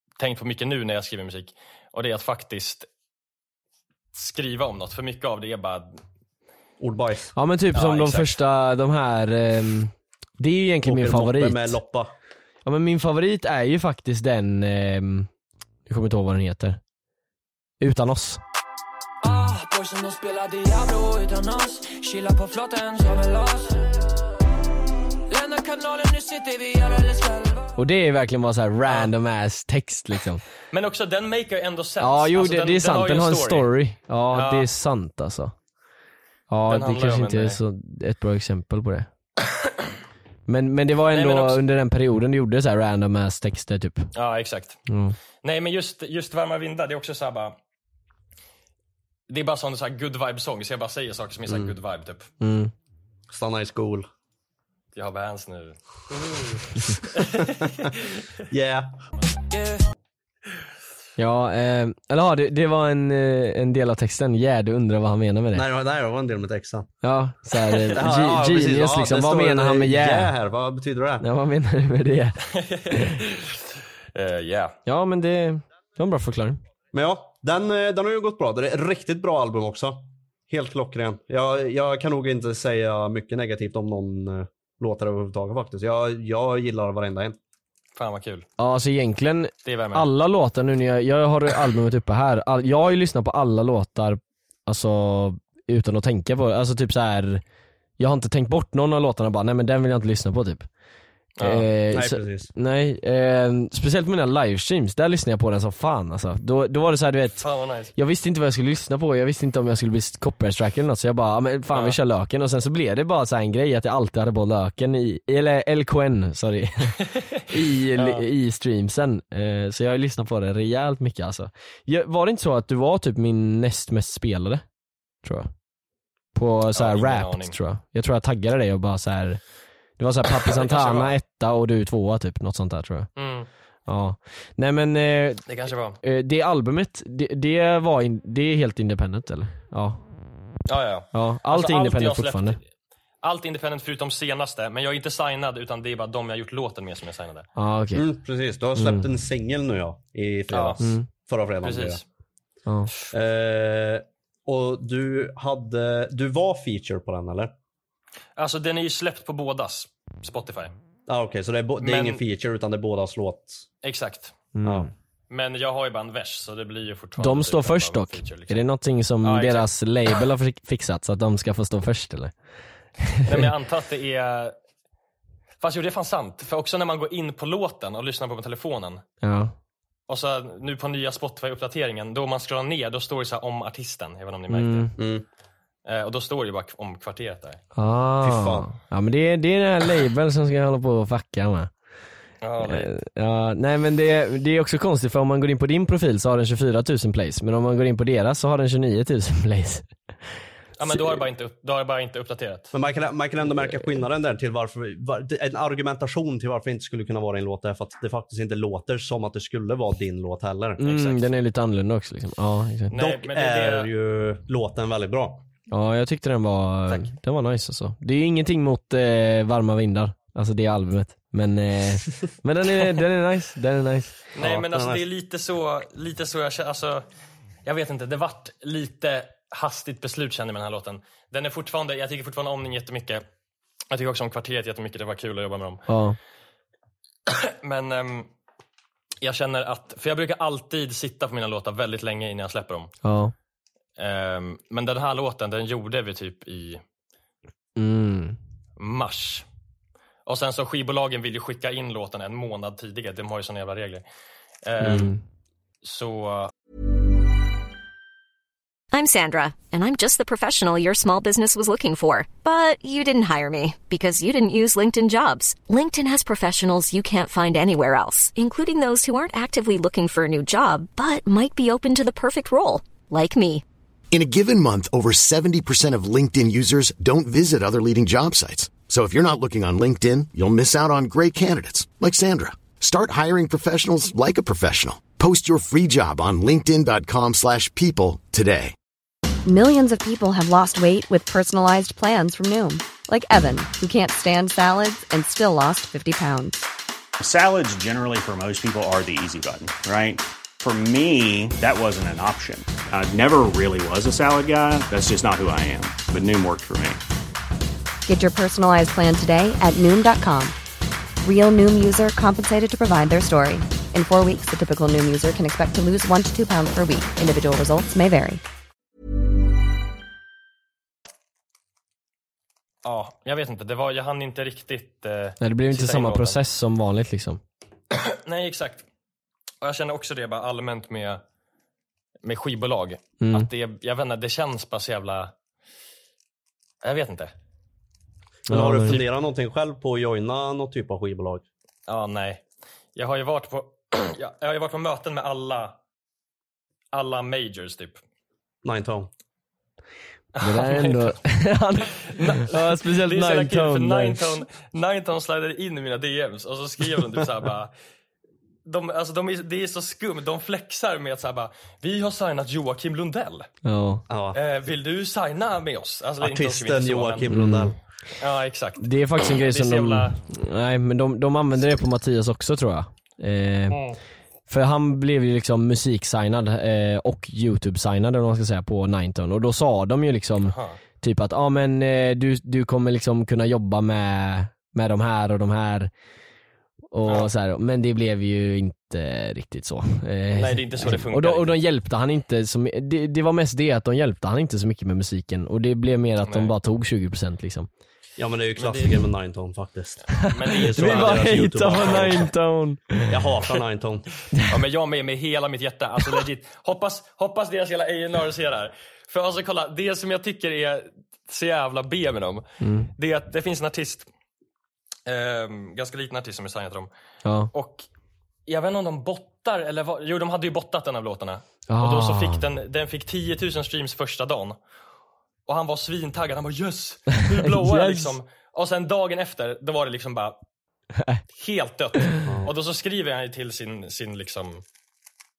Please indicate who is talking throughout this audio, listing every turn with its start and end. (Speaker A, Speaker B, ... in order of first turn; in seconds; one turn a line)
Speaker A: 0.2-2.9
Speaker A: 4.1-6.0
Speaker B: 6.8-7.3
Speaker C: 7.3-11.8
Speaker A: 7.7-8.3
Speaker B: 10.8-12.1
Speaker C: 12.6-15.3
Speaker C: 15.9-16.8
Speaker C: 17.8-18.4
Speaker D: 19.2-24.0
Speaker D: 25.3-27.7
Speaker C: 27.8-30.4
Speaker A: 30.7-33.7
Speaker C: 32.0-35.5
Speaker A: 34.3-34.7
Speaker C: 36.5-39.1
Speaker A: 36.7-37.6
Speaker C: 40.5-44.1
Speaker A: 41.1-41.6
Speaker A: 44.1-44.8
Speaker C: 44.9-45.1
Speaker A: 45.4-47.5
Speaker A: 49.3-52.3
Speaker C: 52.4-52.7
Speaker B: 53.3-54.1
Speaker A: 54.9-56.6
Speaker A: 57.1-58.0
Speaker B: 58.5-59.0
Speaker D: 59.5-59.8
Speaker C: 61.2-65.6
Speaker B: 65.5-66.9
Speaker C: 67.0-70.3
Speaker B: 67.9-71.2
Speaker C: 71.2-72.4
Speaker A: 72.5-73.6
Speaker C: 72.9-73.2
Speaker A: 74.1-74.8
Speaker C: 74.8-76.6
Speaker B: 76.9-87.4
Speaker A: 88.0-88.5
Speaker C: 88.6-97.4
Speaker A: 89.6-90.0
Speaker C: 98.0-100.7
Speaker A: 101.4-101.7
Speaker C: 101.4-107.4
Speaker B: 101.9-102.5
Speaker A: 107.4-107.9
Speaker C: 107.9-124.6
Speaker A: 117.9-118.2
Speaker C: 125.2-125.5
Speaker C: 126.3-129.4
Speaker A: 126.7-127.6
Speaker C: 130.0-133.1
Speaker A: 130.4-131.2
Speaker A: 133.2-133.5
Speaker C: 133.8-135.4
Speaker A: 135.5-136.0
Speaker C: 136.0-140.0
Speaker A: 140.7-142.6
Speaker C: 141.1-142.6
Speaker A: 143.2-147.5
Speaker C: 147.6-148.0
Speaker B: 147.9-152.0
Speaker C: 148.8-149.1
Speaker A: 150.5-150.8
Speaker C: 150.8-151.1
Speaker A: 151.6-152.0
Speaker C: 152.7-152.9
Speaker B: 153.1-157.5
Speaker A: 158.4-160.7
Speaker B: 161.1-163.7
Speaker A: 161.8-162.2
Speaker A: 163.8-164.4
Speaker C: 164.5-164.9
Speaker B: 164.6-164.9
Speaker A: 165.3-168.6
Speaker C: 167.2-172.3
Speaker A: 169.2-169.7
Speaker C: 173.0-173.5
Speaker A: 173.2-174.6
Speaker A: 175.6-179.0
Speaker C: 179.2-179.5
Speaker A: 180.1-184.9
Speaker C: 184.5-184.9
Speaker B: 185.0-185.2
Speaker A: 185.8-187.6
Speaker C: 187.7-191.7
Speaker B: 188.2-188.7
Speaker A: 192.4-192.9
Speaker C: 192.6-199.9
Speaker A: 200.8-202.7
Speaker B: 202.7-210.8
Speaker C: 210.8-212.9
Speaker A: 210.8-211.3
Speaker A: 212.9-213.9
Speaker B: 212.9-215.4
Speaker C: 215.7-224.2
Speaker A: 224.3-227.0
Speaker B: 224.4-225.0
Speaker A: 227.6-233.2
Speaker A: 233.9-235.8
Speaker C: 235.9-236.2
Speaker A: 237.3-238.3
Speaker A: 239.2-242.9
Speaker C: 243.0-243.3
Speaker A: 244.0-246.8
Speaker C: 247.8-248.4
Speaker A: 248.8-249.4
Speaker A: 250.2-254.0
Speaker A: 254.6-255.1
Speaker C: 254.8-255.2
Speaker A: 255.8-256.5
Speaker E: 258.9-273.6
Speaker F: 274.1-288.7
Speaker G: 289.4-296.7
Speaker H: 297.2-307.0
Speaker G: 308.1-310.5
Speaker G: 311.2-318.4
Speaker A: 322.8-326.4
Speaker C: 325.4-327.4
Speaker A: 328.1-328.9
Speaker A: 329.6-331.2
Speaker A: 332.2-335.3
Speaker C: 333.2-333.5
Speaker A: 336.8-337.3
Speaker C: 338.5-339.0
Speaker B: 338.5-341.4
Speaker A: 341.9-342.4
Speaker A: 342.9-345.8
Speaker A: 346.9-348.0
Speaker B: 348.6-349.1
Speaker A: 350.3-351.1
Speaker C: 350.4-354.3
Speaker A: 352.1-357.7
Speaker A: 358.6-363.5
Speaker C: 363.6-364.0
Speaker B: 364.1-364.4
Speaker A: 364.3-367.3
Speaker B: 366.2-367.8
Speaker C: 367.3-367.8
Speaker A: 368.2-370.2
Speaker C: 368.8-373.8
Speaker A: 373.7-374.0
Speaker C: 374.5-385.9
Speaker A: 380.5-380.8
Speaker C: 386.9-397.7
Speaker A: 390.3-391.6
Speaker A: 396.2-396.5
Speaker B: 398.2-402.3
Speaker A: 398.6-399.0
Speaker A: 400.1-402.2
Speaker C: 400.4-403.3
Speaker B: 403.1-404.1
Speaker A: 404.5-414.1
Speaker C: 412.6-412.9
Speaker A: 415.1-416.9
Speaker C: 417.2-417.5
Speaker A: 417.5-417.8
Speaker A: 418.5-424.6
Speaker C: 421.7-422.4
Speaker A: 425.5-430.4
Speaker C: 427.3-428.1
Speaker C: 431.0-431.2
Speaker A: 431.3-434.6